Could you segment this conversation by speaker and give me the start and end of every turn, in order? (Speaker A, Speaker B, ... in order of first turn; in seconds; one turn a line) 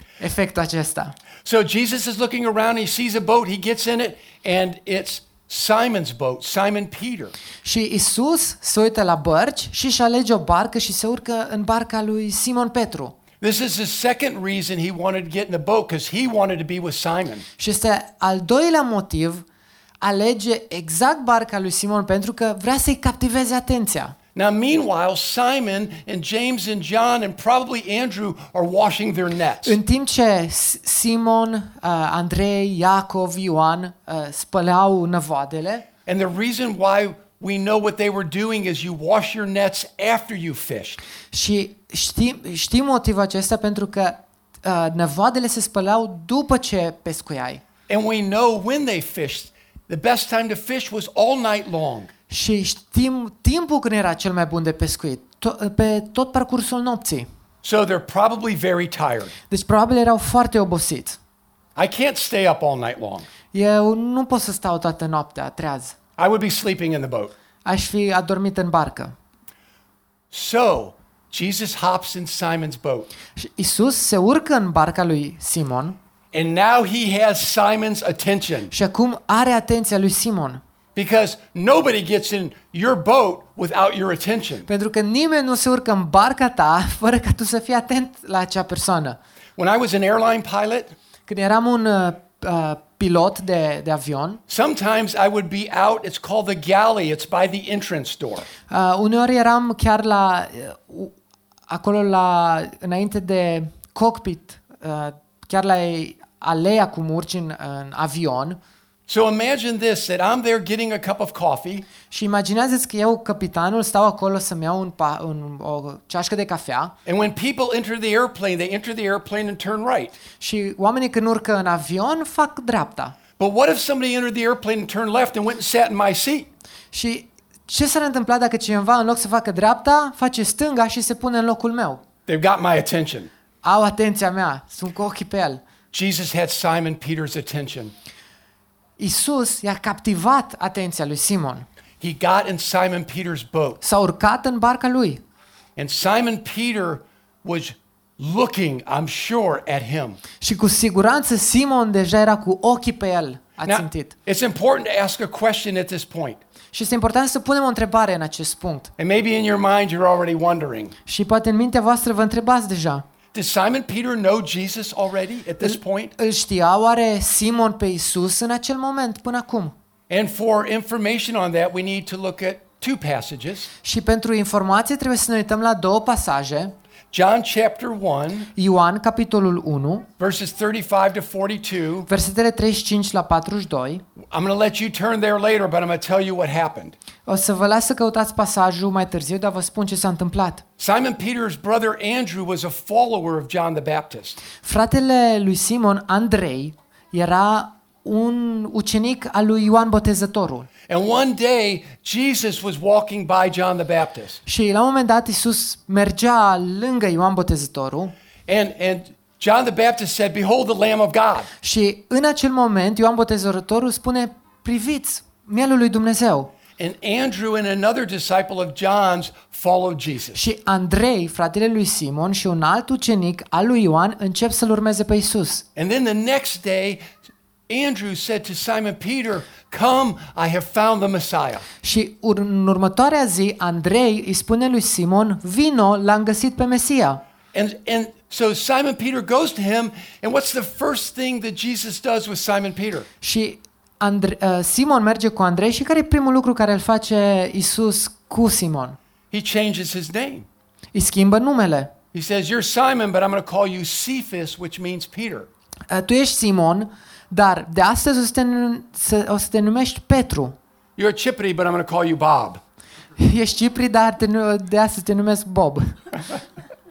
Speaker A: 0.2-1.1
Speaker B: 1.4-7.3
Speaker A: 7.6-13.1
Speaker B: 13.4-17.4
Speaker A: 17.6-19.4
Speaker A: 20.0-24.1
Speaker B: 24.3-29.8
Speaker A: 29.6-35.9
Speaker B: 36.0-41.0
Speaker A: 41.3-47.6
Speaker B: 47.9-52.1
Speaker A: 52.3-57.3
Speaker B: 57.6-59.3
Speaker A: 59.5-61.2
Speaker B: 61.7-63.3
Speaker A: 63.5-66.0
Speaker B: 66.2-67.3
Speaker A: 67.6-69.1
Speaker B: 70.3-73.1
Speaker A: 73.4-76.0
Speaker B: 76.3-78.7
Speaker A: 78.7-80.6
Speaker B: 80.9-84.7
Speaker A: 84.7-89.2
Speaker B: 89.6-91.0
Speaker A: 91.3-94.4
Speaker B: 94.5-98.5
Speaker A: 98.7-101.1
Speaker A: 101.7-108.6
Speaker B: 109.1-111.9
Speaker A: 112.1-116.9
Speaker B: 117.0-120.1
Speaker A: 120.4-123.2
Speaker B: 123.4-126.5
Speaker A: 126.9-132.0
Speaker B: 132.3-133.3
Speaker A: 133.6-135.6
Speaker B: 135.9-137.9
Speaker A: 139.0-141.6
Speaker B: 142.0-143.8
Speaker A: 143.8-145.2
Speaker B: 145.8-150.2
Speaker A: 150.4-154.1
Speaker B: 153.6-156.4
Speaker A: 156.7-158.9
Speaker B: 159.0-160.9
Speaker A: 161.1-163.0
Speaker B: 163.3-166.1
Speaker A: 165.6-169.7
Speaker B: 170.1-173.7
Speaker A: 173.8-176.7
Speaker B: 177.1-178.5
Speaker A: 178.6-180.1
Speaker B: 180.2-182.1
Speaker A: 182.1-184.0
Speaker B: 184.2-186.9
Speaker A: 187.2-190.6
Speaker B: 190.8-194.4
Speaker A: 194.6-200.7
Speaker B: 200.9-204.4
Speaker A: 204.4-208.1
Speaker B: 208.5-211.5
Speaker A: 211.6-216.5
Speaker B: 216.8-220.4
Speaker A: 220.3-225.6
Speaker B: 225.8-227.1
Speaker B: 227.7-231.6
Speaker A: 231.8-237.2
Speaker B: 237.5-243.1
Speaker A: 243.2-249.0
Speaker B: 249.3-250.5
Speaker A: 250.9-251.9
Speaker B: 252.1-255.5
Speaker A: 255.9-260.6
Speaker B: 261.0-262.6
Speaker A: 263.2-266.0